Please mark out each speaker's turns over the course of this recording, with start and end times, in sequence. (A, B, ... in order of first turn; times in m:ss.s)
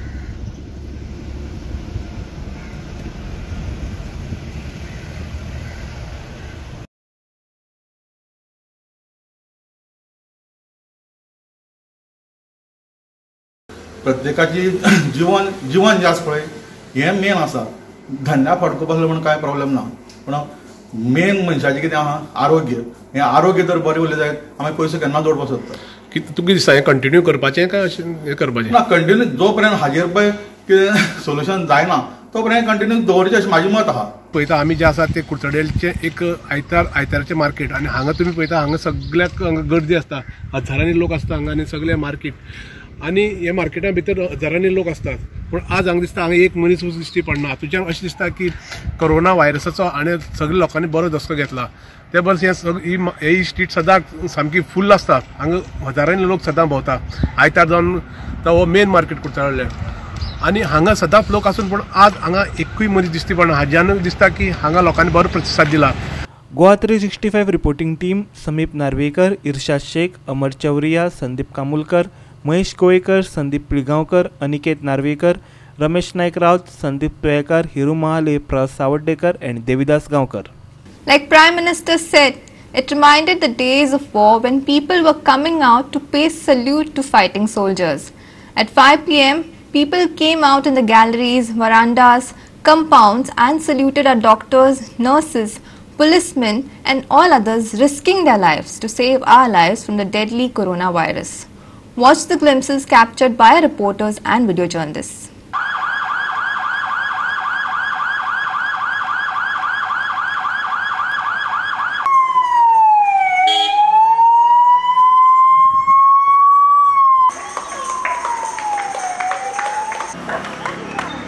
0:14.0-0:25.8 A
0:26.1-0:28.8 B
0:28.7-0:34.1 A
0:34.3-0:42.4 B
0:43.0-0:59.7 B
1:00.4-1:06.0 B
1:06.5-1:20.5 C
1:21.1-1:45.3 D